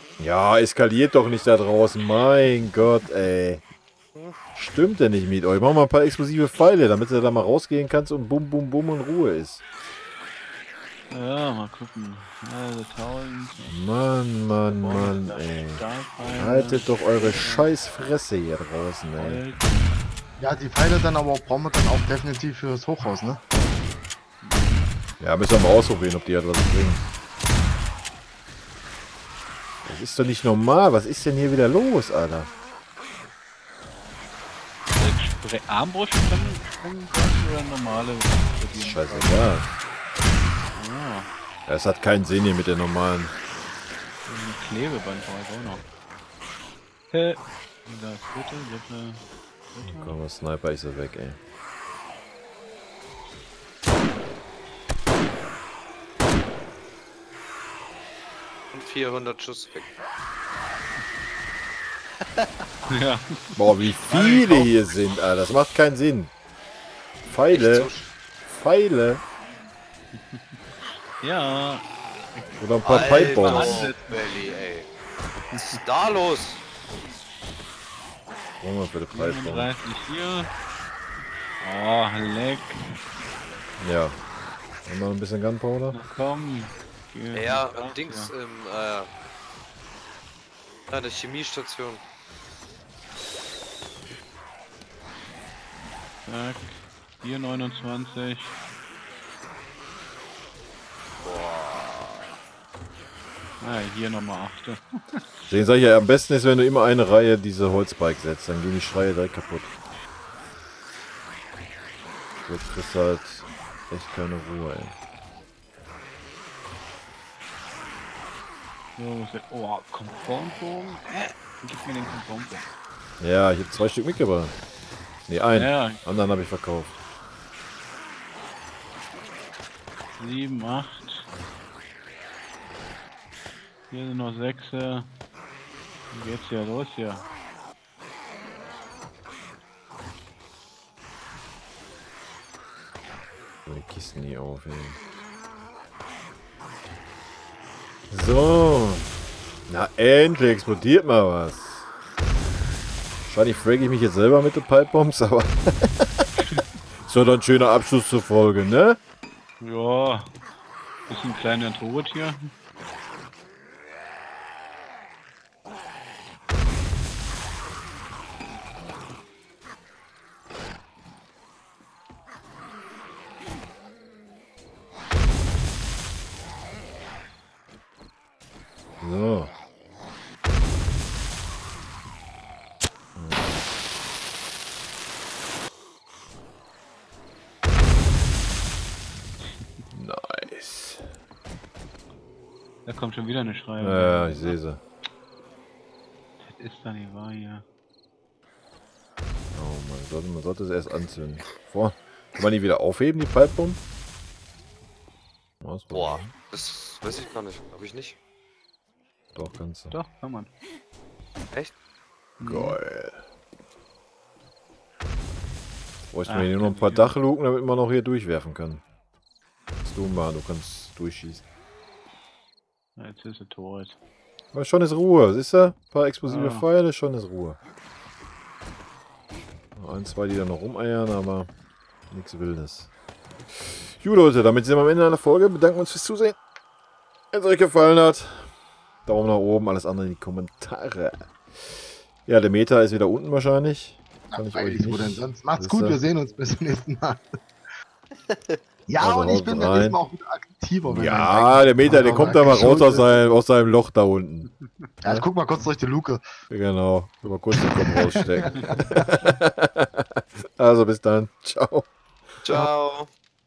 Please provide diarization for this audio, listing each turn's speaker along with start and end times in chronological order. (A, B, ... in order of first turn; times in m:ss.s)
0:00.2-0:03.6 A
0:04.6-0:09.6 A
0:11.1-0:13.8 B
0:13.6-0:15.8 A
0:14.6-0:17.7 B
0:16.4-0:19.4 A
0:19.2-0:20.0 B
0:20.4-0:23.4 C
0:24.4-0:24.9 B
0:25.2-0:27.0 A
0:29.8-0:32.5 A
0:35.0-0:39.4 B
0:38.7-0:39.7 A
0:40.7-0:41.3 B
0:41.7-0:43.4 A
0:44.2-0:45.8 B
0:47.1-0:50.2 B
0:49.8-0:51.4 A
0:55.2-0:55.5 B
0:58.7-0:59.9 D
1:02.9-1:04.7 B
1:03.6-1:06.3 A
1:07.2-1:07.9 A
1:07.5-1:08.1 D
1:08.4-1:09.2 A
1:11.2-1:11.9 B
1:12.4-1:14.6 B
1:12.6-1:13.9 A
1:12.8-1:14.9 D
1:15.5-1:16.6 D
1:18.6-1:19.7 A
1:19.1-1:20.5 B
1:21.6-1:23.0 B
1:23.8-1:24.2 A
1:24.8-1:26.0 A
1:25.9-1:28.3 B
1:27.3-1:29.1 D
1:30.9-1:32.0 D
1:36.2-1:38.6 B
1:41.2-1:42.2 D
1:43.6-1:44.8 B
1:45.5-1:49.7 A
1:52.4-1:55.0 A
1:59.0-2:02.7 B
2:03.2-2:04.5 A
2:05.3-2:07.0 A
2:05.6-2:06.0 B
2:10.2-2:11.3 B
2:13.9-2:15.1 B
2:16.1-2:17.2 B
2:23.6-2:25.0 A
2:28.1-2:29.1 A
2:29.7-2:31.9 A
2:33.2-2:36.3 A
2:37.0-2:39.0 A
2:39.6-2:40.4 B
2:41.1-2:42.5 B
2:59.0-2:59.5 A
3:03.1-3:03.6 A
3:09.9-3:11.1 A
3:12.9-3:14.6 B
3:13.8-3:14.8 A
3:16.4-3:17.6 B
3:19.5-3:23.8 A
3:25.6-3:26.3 A
3:25.9-3:28.2 D
3:29.3-3:30.0 A
3:29.9-3:30.5 B
3:32.4-3:32.8 B
3:32.4-3:33.2 A
3:36.1-3:38.8 A
3:36.2-3:37.1 B
3:39.8-3:41.4 A
3:43.0-3:44.0 B
3:44.5-3:47.6 A
3:46.3-3:46.7 B
3:49.7-3:51.5 A
3:52.1-3:52.9 A
3:53.6-3:56.4 A
3:57.3-3:58.5 A
3:59.1-4:06.0 A
4:04.3-4:07.4 C
4:08.3-4:08.6 D
4:08.9-4:13.2 C
4:09.0-4:10.0 A
4:10.9-4:14.5 A
4:15.0-4:16.2 C
4:16.5-4:21.9 A
4:17.6-4:19.2 C
4:22.4-4:23.1 D